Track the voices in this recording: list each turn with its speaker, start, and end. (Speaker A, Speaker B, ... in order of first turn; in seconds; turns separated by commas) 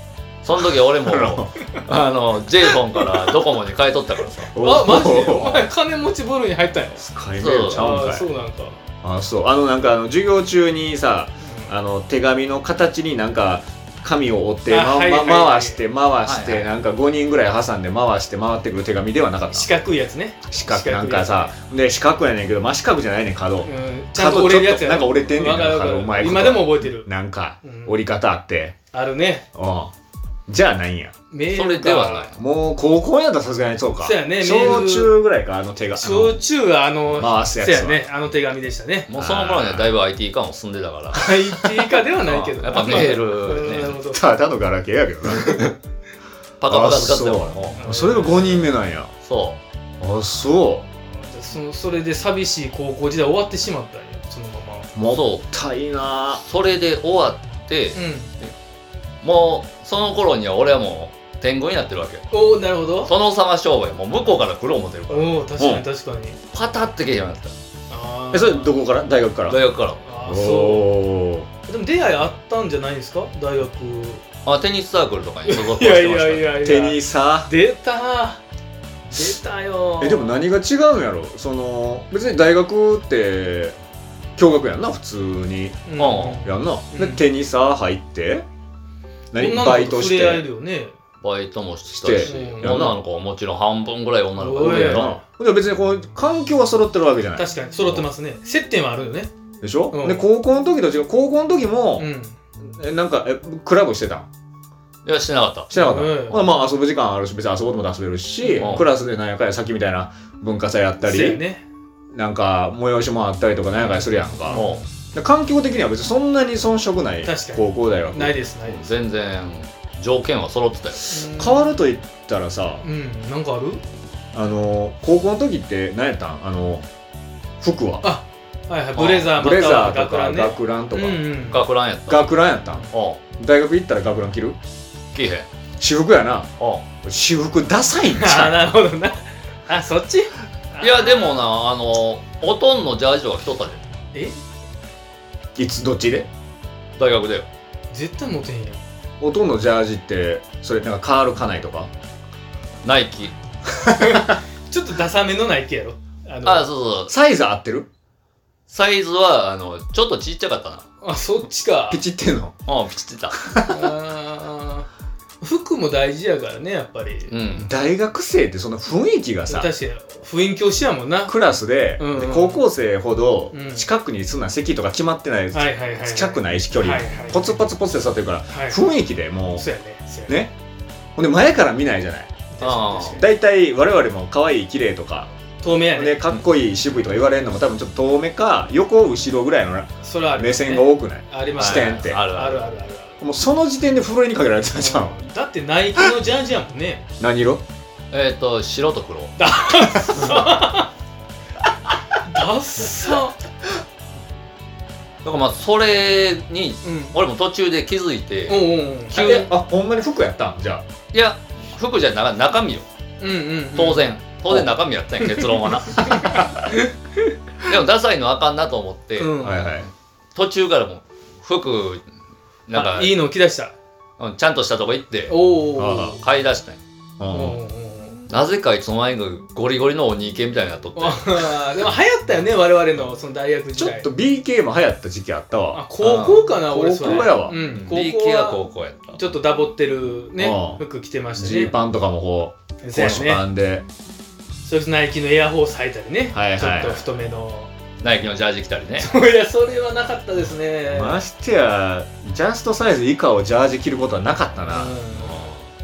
Speaker A: 0.4-4.5, Speaker B: 1.0-1.5, Speaker C: 4.5-7.0, Speaker B: 4.5-5.7, Speaker B: 7.0-8.3, Speaker A: 7.4-7.8, Speaker C: 7.7-8.8, Speaker B: 9.0-19.7, Speaker C: 11.4-11.7, Speaker C: 14.7-15.8, Speaker A: 16.2-16.7, Speaker C: 19.5-21.5, Speaker B: 20.5-28.8, Speaker C: 23.6-27.1, Speaker C: 27.6-28.0, Speaker C: 28.9-29.5, Speaker B: 29.6-29.9, Speaker B: 30.5-31.1, Speaker C: 31.3-32.3, Speaker A: 31.5-32.4, Speaker B: 32.4-36.4, Speaker C: 34.0-35.2, Speaker C: 36.0-39.1, Speaker B: 37.2-38.0, Speaker A: 39.1-41.3, Speaker B: 39.1-39.9, Speaker C: 41.1-44.3, Speaker A: 42.2-44.0, Speaker B: 44.1-45.7, Speaker A: 46.6-47.8, Speaker B: 46.7-49.1, Speaker C: 47.8-48.7, Speaker A: 49.2-49.6, Speaker B: 50.0-50.9, Speaker C: 51.1-54.9, Speaker B: 55.0-56.4, Speaker A: 55.1-55.5, Speaker A: 56.4-58.5, Speaker C: 58.0-58.3, Speaker A: 59.2-62.3, Speaker C: 62.3-63.1, Speaker A: 63.0-65.4, Speaker C: 65.1-66.4, Speaker B: 65.6-65.8, Speaker A: 66.5-67.6, Speaker C: 67.9-68.8, Speaker B: 68.3-69.6, Speaker A: 69.5-70.0, Speaker C: 70.0-70.9, Speaker B: 70.3-71.5, Speaker C: 71.7-74.2, Speaker A: 74.5-76.6, Speaker C: 75.5-78.4, Speaker B: 76.6-77.5, Speaker C: 79.1-80.5, Speaker B: 80.0-83.8, Speaker B: 84.4-88.5, Speaker C: 85.9-87.2, Speaker A: 86.0-86.5, Speaker B: 89.3-90.5, Speaker C: 89.4-91.0, Speaker A: 91.2-95.1, Speaker B: 91.9-93.0, Speaker C: 92.3-92.8, Speaker C: 94.4-95.2, Speaker B: 94.6-98.0, Speaker C: 97.4-99.3, Speaker B: 99.6-102.1, Speaker C: 99.9-100.3, Speaker C: 102.0-102.4, Speaker B: 102.8-104.3, Speaker A: 105.0-105.7, Speaker B: 105.7-111.4, Speaker C: 105.7-106.5, Speaker C: 108.4-108.8, Speaker A: 108.6-108.8, Speaker C: 111.0-111.7, Speaker B: 112.1-118.4, Speaker C: 114.4-114.9, Speaker A: 114.5-114.8, Speaker C: 117.2-118.9, Speaker A: 118.7-121.2, Speaker C: 121.1-121.8, Speaker B: 121.2-122.8, Speaker C: 122.8-123.8, Speaker B: 124.3-126.9, Speaker B: 127.6-128.1, Speaker C: 128.0-131.6, Speaker A: 129.0-129.3, Speaker B: 129.3-131.3, Speaker A: 131.5-133.2, Speaker B: 132.1-134.6, Speaker A: 135.1-135.5, Speaker B: 135.8-136.5, Speaker A: 136.6-136.9, Speaker B: 137.0-138.7, Speaker C: 138.1-141.3, Speaker A: 140.8-143.8, Speaker B: 145.6-146.3, Speaker A: 147.0-147.5, Speaker C: 147.9-148.8, Speaker B: 149.2-151.9, Speaker A: 152.8-153.4, Speaker B: 153.8-154.3, Speaker C: 153.8-156.7, Speaker A: 156.4-157.1, Speaker B: 157.1-157.9, Speaker A: 158.7-160.8, Speaker C: 161.0-162.0, Speaker B: 161.9-162.6, Speaker A: 162.7-163.4, Speaker B: 163.4-163.9, Speaker C: 163.7-164.9, Speaker C: 165.4-167.3, Speaker A: 167.3-167.7, Speaker B: 167.6-169.7, Speaker C: 169.5-171.4, Speaker B: 171.3-179.7, Speaker C: 172.0-172.6, Speaker C: 173.5-173.9, Speaker C: 175.5-177.6, Speaker C: 178.5-178.8, Speaker C: 179.5-180.4, Speaker B: 180.3-180.5, Speaker B: 181.2-182.4, Speaker C: 182.6-183.3, Speaker A: 182.6-183.2, Speaker B: 183.1-185.3, Speaker C: 185.6-186.2, Speaker B: 185.9-192.2, Speaker C: 190.0-193.2, Speaker A: 191.6-192.7, Speaker B: 193.2-195.2, Speaker C: 194.7-197.1, Speaker B: 197.2-197.6, Speaker A: 198.1-199.4, Speaker C: 199.4-200.9, Speaker C: 202.2-203.4, Speaker A: 205.2-209.5, Speaker C: 206.8-207.2, Speaker C: 208.5-209.4, Speaker B: 209.1-210.8, Speaker A: 211.1-212.9, Speaker C: 213.2-214.0, Speaker A: 213.8-216.1, Speaker C: 215.3-217.3, Speaker B: 216.1-216.6, Speaker A: 217.6-219.4, Speaker C: 219.2-219.6, Speaker B: 219.4-219.9, Speaker A: 220.3-222.0, Speaker A: 222.7-223.2, Speaker C: 222.7-223.7, Speaker A: 224.2-225.3, Speaker C: 225.3-226.2, Speaker B: 225.8-226.2, Speaker A: 226.2-226.8, Speaker B: 227.2-227.6, Speaker C: 227.3-228.2, Speaker A: 228.3-231.6, Speaker C: 231.0-234.1, Speaker B: 233.8-235.9, Speaker C: 235.7-238.6, Speaker A: 236.0-236.5, Speaker B: 236.6-237.6, Speaker A: 237.2-239.2, Speaker C: 239.1-241.7, Speaker B: 240.4-240.8, Speaker B: 241.4-243.8, Speaker C: 242.8-243.4, Speaker C: 244.7-247.7, Speaker B: 246.3-247.1, Speaker A: 248.0-249.1, Speaker C: 249.0-251.2, Speaker B: 250.9-255.0, Speaker C: 254.7-255.5, Speaker A: 255.2-255.7